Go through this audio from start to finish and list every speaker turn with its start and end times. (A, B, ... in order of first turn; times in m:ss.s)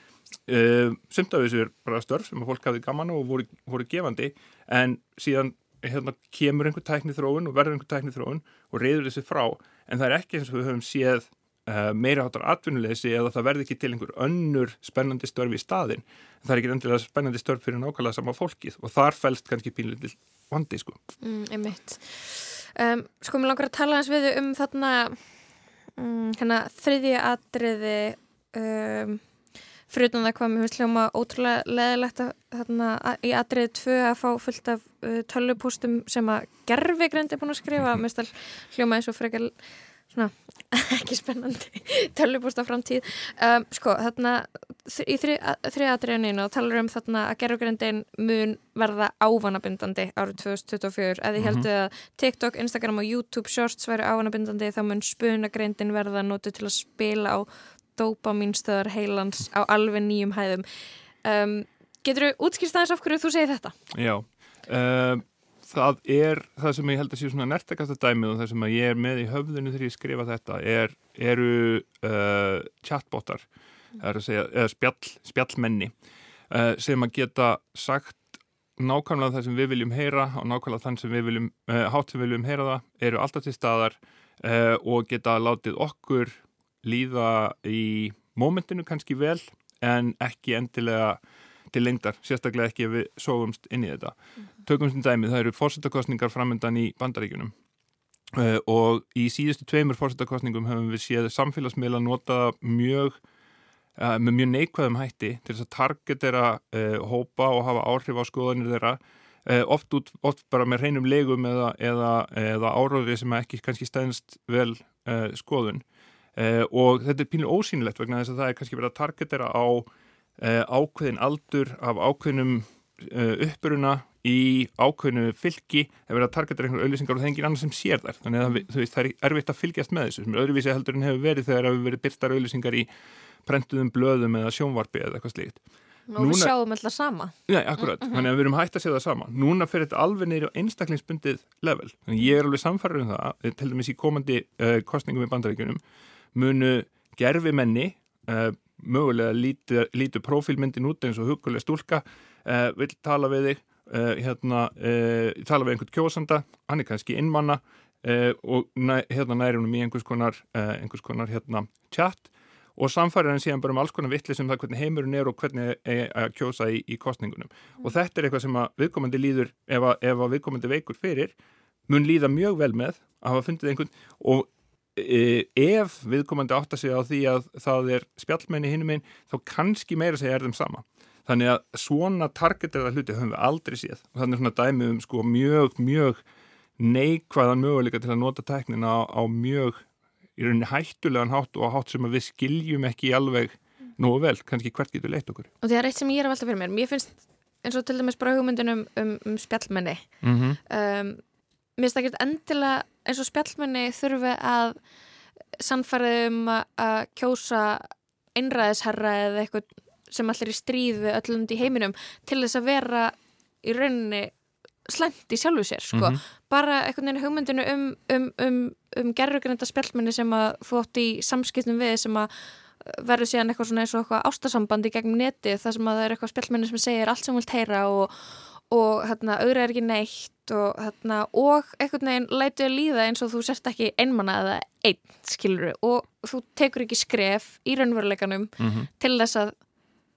0:00.5-0:21.0 A
0:21.2-0:25.2 B
0:26.0-0:29.2 B
0:29.9-0:39.5 B
0:40.1-1:00.6 B
0:51.4-0:51.7 A
1:01.2-1:03.8 B
1:03.9-1:13.4 A
1:14.0-1:15.9 A
1:16.5-1:18.2 A
1:18.8-1:31.2 A
1:31.7-1:37.5 A
1:38.3-1:43.2 A
1:44.0-1:55.8 A
1:56.4-1:59.9 A
2:00.4-2:12.9 A
2:13.4-2:15.6 A
2:16.1-2:17.3 B
2:16.2-2:16.5 A
2:17.5-2:25.8 A
2:17.9-2:18.3 B
2:26.3-2:51.3 A
2:51.9-3:06.2 A
3:06.8-3:09.8 A
3:10.4-3:15.5 A
3:15.6-3:21.2 B
3:20.2-3:20.6 A
3:21.8-3:24.8 B
3:25.6-3:59.5 B
3:35.9-3:36.2 A
3:58.6-3:58.9 A